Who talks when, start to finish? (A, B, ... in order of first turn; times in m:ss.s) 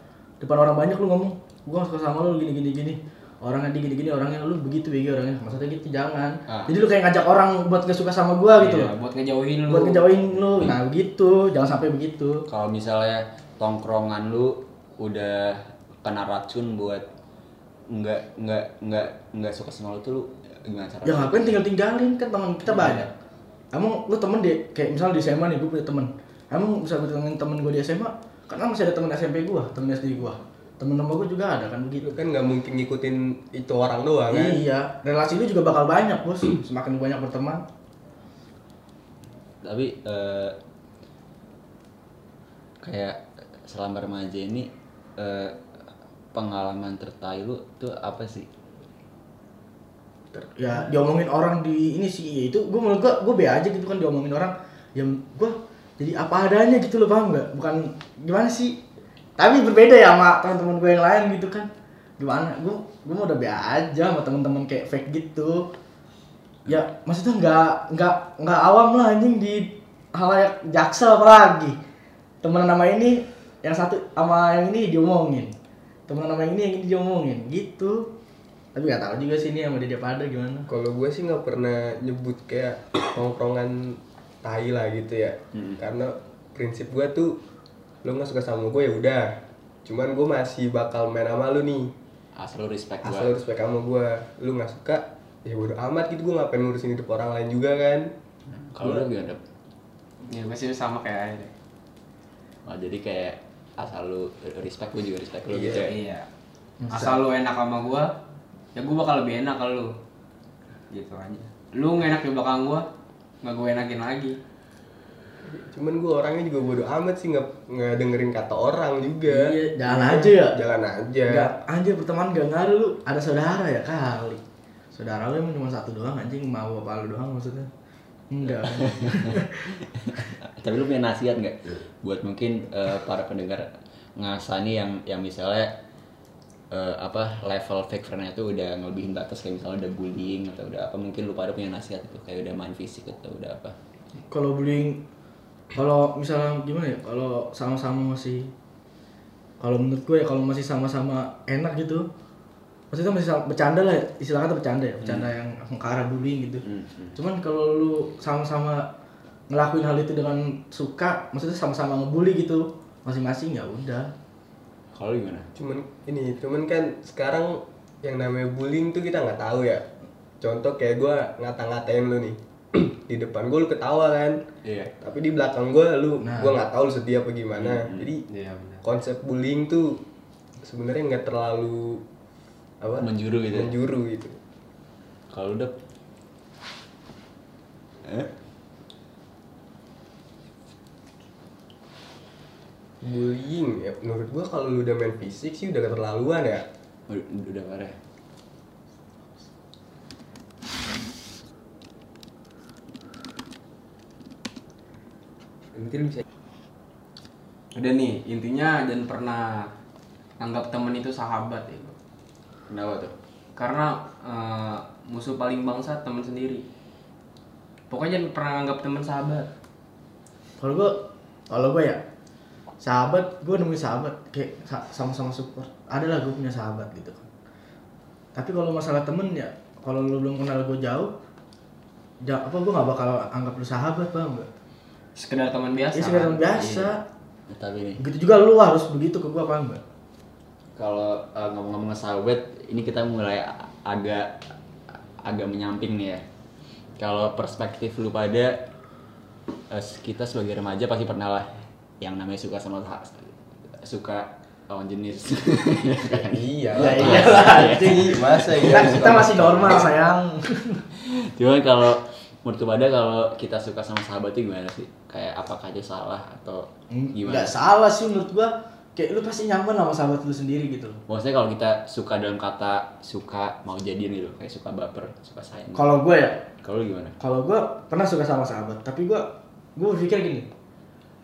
0:00.4-0:08.9 A
0:06.5-0:06.7 B
0:08.6-0:10.1 C
0:09.7-0:12.4 A
0:12.5-0:17.0 B
0:17.9-0:21.4 B
0:21.0-0:23.1 A
0:22.7-0:23.1 B
0:23.7-0:32.1 A
0:32.0-0:34.6 D
0:34.3-0:37.6 A
0:39.6-0:40.6 B
0:42.8-0:45.6 B
0:46.3-0:48.5 B
0:50.3-0:58.8 A
0:59.4-1:05.7 A
1:06.7-1:11.8 A
1:12.4-1:15.5 A
1:16.1-1:18.1 A
1:18.7-1:20.7 A
1:20.7-1:27.3 D
1:25.5-1:25.8 B
1:28.0-1:31.9 D
1:32.4-1:33.3 B
1:33.0-1:38.1 D
1:38.6-1:39.4 B
1:38.8-1:39.1 D
1:40.3-1:41.5 C
1:42.7-1:46.0 B
1:45.5-1:45.9 D
1:45.6-1:46.3 C
1:46.8-1:47.2 A
1:46.9-1:48.1 C
1:48.8-1:49.9 C
1:50.9-1:52.9 C
1:53.4-1:54.4 C
1:55.5-2:01.5 D
1:59.3-2:00.6 A
2:01.3-2:04.4 A
2:04.9-2:07.7 A
2:08.3-2:09.7 A
2:08.7-2:09.4 B
2:10.0-2:15.8 B
2:16.7-2:23.8 B
2:24.3-2:25.0 A
2:25.7-2:28.5 A
2:29.6-2:32.1 A
2:32.9-2:36.6 A
2:35.0-2:35.3 B
2:36.6-2:37.2 B
2:37.2-2:38.9 A
2:39.5-2:44.1 A
2:44.9-2:45.5 B
2:45.6-2:49.9 D
2:50.4-2:54.4 D
2:54.6-2:54.9 B
2:54.9-2:58.2 D
2:56.2-2:56.6 A
2:57.6-2:58.1 B
2:58.3-2:58.8 C
2:58.8-3:00.0 D
3:00.6-3:02.0 D
3:02.8-3:04.4 D
3:03.0-3:03.7 B
3:05.3-3:05.7 B
3:08.0-3:08.3 B
3:13.0-3:16.7 D
3:17.1-3:18.0 B
3:25.7-3:26.2 D
3:27.8-3:29.7 C
3:30.4-3:32.0 C
3:32.7-3:33.1 B
3:33.6-3:36.6 C
3:37.9-3:39.5 C
3:40.6-3:42.0 A
3:42.8-3:47.3 A
3:48.4-3:51.1 A
3:52.2-3:54.5 A
3:55.2-3:56.9 C
3:55.9-3:57.0 A
3:57.5-3:58.0 B
3:58.0-3:59.8 A
4:00.8-4:04.4 B
4:05.2-4:06.2 B
4:07.0-4:08.6 B
4:09.7-4:19.8 B
4:16.1-4:19.9 D
4:16.8-4:20.8 A
4:21.1-4:27.5 B
4:26.9-4:31.0 A
4:31.1-4:35.9 B
4:35.7-4:36.4 A
4:36.6-4:37.2 B
4:37.2-4:40.5 A